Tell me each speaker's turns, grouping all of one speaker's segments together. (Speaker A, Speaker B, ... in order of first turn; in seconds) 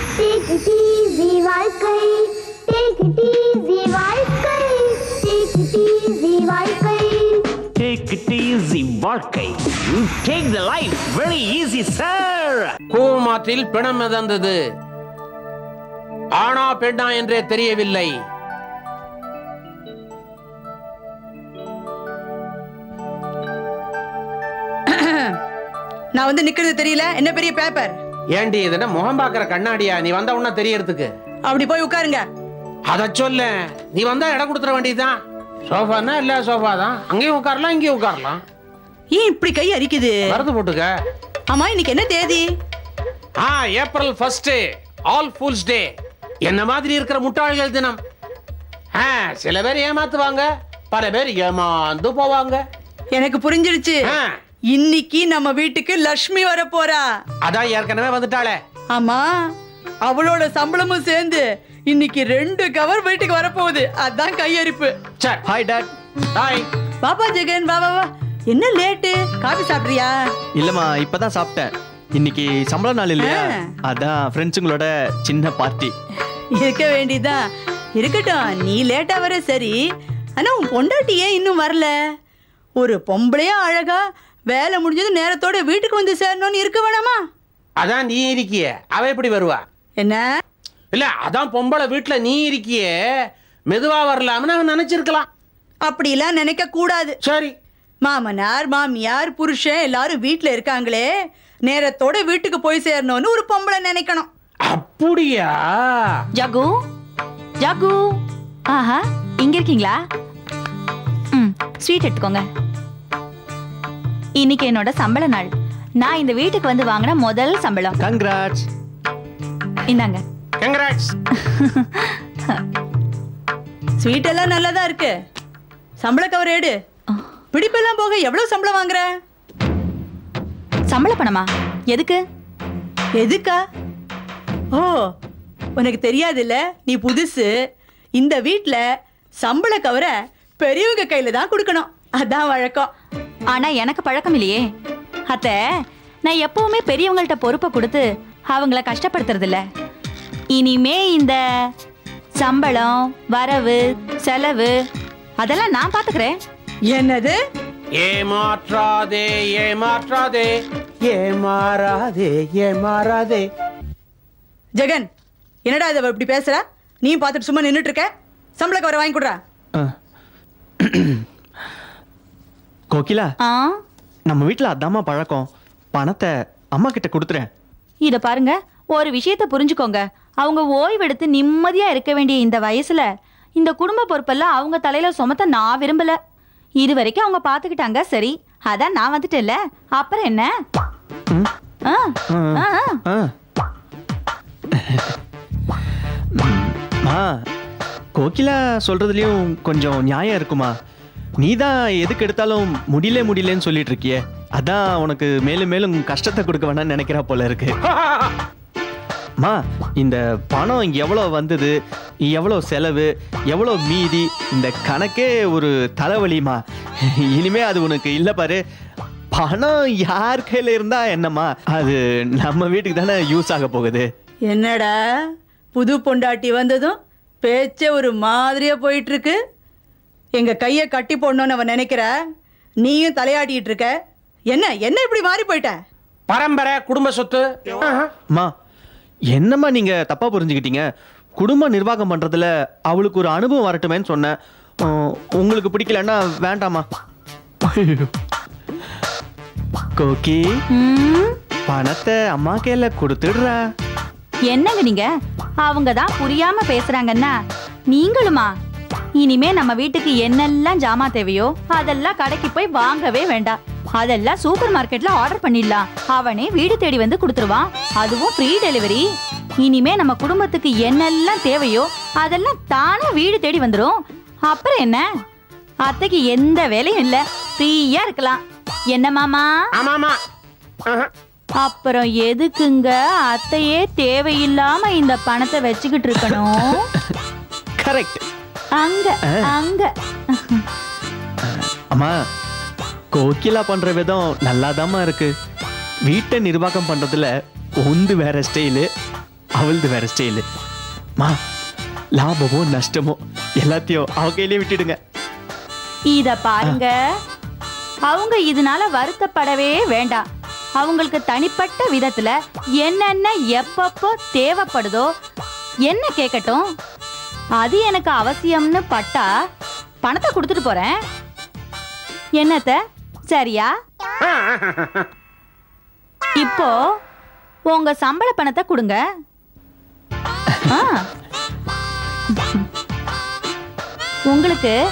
Speaker A: 0.2-2.1, 2.7-7.4
Speaker B: 7.8-14.6, 16.3-18.2, 28.3-31.1, 32.9-38.4, 40.3-40.9, 43.4-45.9, 46.4-48.0, 49.0-52.6, 54.0-54.3, 57.4-58.6, 65.2-65.5, 66.3-66.7, 87.8-89.6, 90.9-92.9, 93.7-95.3, 97.2-97.5, 104.7-106.2, 120.6-121.1, 158.0-160.5, 161.1-163.4, 236.3-238.1, 279.8-280.2
Speaker C: 24.9-25.3, 26.1-27.9, 31.5-32.2, 39.1-40.4, 41.5-42.5, 53.1-54.2, 54.7-57.0, 58.9-59.3, 60.0-64.9, 67.0-70.1, 73.2-73.7, 76.6-77.4, 78.0-79.8, 80.4-81.9, 82.8-87.2, 95.8-97.2, 98.0-101.1, 101.7-104.3, 124.0-125.1, 126.0-126.8, 127.5-129.1, 133.2-133.6, 135.8-137.5, 138.2-138.8, 139.4-142.9, 156.9-157.4, 164.8-165.1, 165.7-169.4, 224.5-224.9, 225.8-229.4, 230.3-232.1, 232.8-233.9, 234.5-235.8
Speaker D: 65.5-65.9, 70.5-75.9, 118.0-118.7, 170.8-171.2, 172.9-173.3, 174.3-177.5, 192.3-193.3, 194.7-195.2, 196.3-197.4, 198.2-200.7, 201.4-207.7, 209.4-216.6, 217.2-218.6, 219.3-224.1, 239.3-246.9, 247.6-248.1, 250.0-250.4, 251.7-253.6, 286.2-287.2, 287.8-288.2, 291.4-292.1, 293.1-295.3, 296.1-298.9, 299.6-300.4, 302.2-305.0
Speaker E: 106.3-106.7, 107.6-108.2, 108.7-110.0, 111.3-112.5, 114.4-115.5, 116.0-118.0, 119.9-120.2, 121.5-122.2, 130.9-132.2, 143.5-144.6, 145.3-145.6, 146.3-149.6, 150.5-151.4, 152.4-154.8, 155.4-156.4, 173.4-173.8, 178.0-186.2, 186.8-190.5, 191.9-193.0, 250.7-251.3, 254.5-255.1, 255.6-257.4, 257.9-258.5, 259.2-269.1, 269.6-275.1, 275.9-278.4, 278.9-279.6, 281.6-286.9, 288.8-290.6, 306.1-306.9, 308.1-310.2, 310.8-315.1, 315.9-316.7, 317.6-319.3, 320.0-321.0, 322.4-322.8, 323.3-323.7, 326.4-326.8, 327.7-329.0, 330.7-331.0, 332.4-332.6, 334.3-334.8